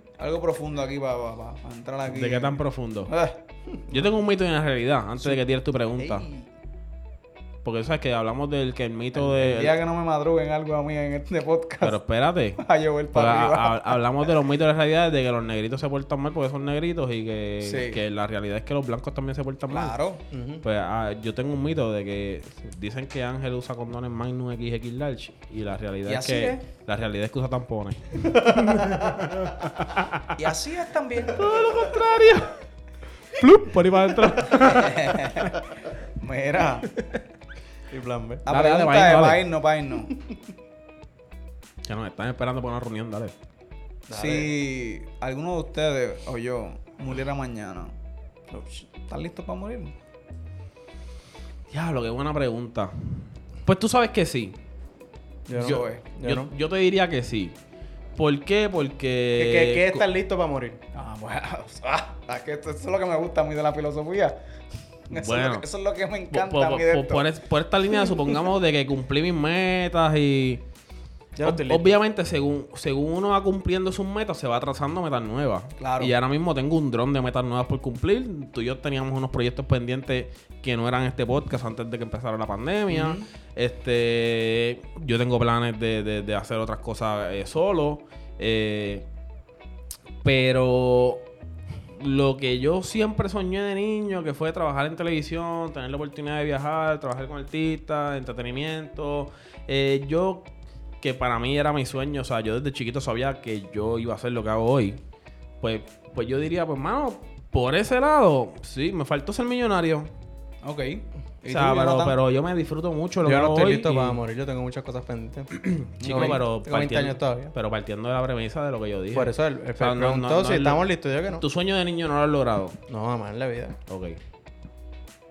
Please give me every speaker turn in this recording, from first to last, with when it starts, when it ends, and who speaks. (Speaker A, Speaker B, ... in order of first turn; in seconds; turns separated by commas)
Speaker A: 0.2-3.4, Speaker B: 2.1-3.1, Speaker C: 3.6-4.1, Speaker B: 3.9-6.3, Speaker A: 6.1-6.4, Speaker B: 7.6-9.8, Speaker A: 9.1-12.0, Speaker B: 11.8-12.6, Speaker A: 12.6-14.3, Speaker B: 13.1-19.9, Speaker A: 17.6-18.0, Speaker A: 19.7-20.2, Speaker C: 20.3-20.6, Speaker B: 20.6-30.3, Speaker A: 26.1-26.6, Speaker C: 28.2-29.3, Speaker A: 30.4-31.5, Speaker B: 31.3-32.6, Speaker B: 33.3-35.6, Speaker A: 34.5-35.6, Speaker A: 36.1-36.9, Speaker B: 36.9-37.2, Speaker C: 37.9-38.4, Speaker A: 38.4-40.1, Speaker B: 38.5-39.5, Speaker C: 40.1-40.4, Speaker B: 41.8-43.3, Speaker C: 44.1-44.5, Speaker A: 44.1-47.9, Speaker C: 48.5-48.9, Speaker A: 49.0-49.9, Speaker B: 51.7-54.5, Speaker C: 55.5-56.5, Speaker B: 55.5-57.5, Speaker A: 55.6-56.0, Speaker B: 58.1-60.0, Speaker C: 59.4-60.8, Speaker A: 60.9-64.3, Speaker A: 65.1-67.2, Speaker B: 65.1-65.7, Speaker B: 66.3-70.6, Speaker C: 71.3-72.0, Speaker B: 71.4-89.0, Speaker A: 75.8-76.1, Speaker A: 82.9-83.2, Speaker B: 90.2-91.2, Speaker B: 91.9-100.5, Speaker B: 101.0-105.0, Speaker B: 105.6-110.1, Speaker A: 110.6-112.2, Speaker B: 111.5-114.2, Speaker C: 113.2-115.5, Speaker B: 115.5-122.8, Speaker A: 116.0-116.4, Speaker C: 116.0-117.5, Speaker C: 119.1-121.4, Speaker C: 122.9-123.8, Speaker B: 123.9-124.2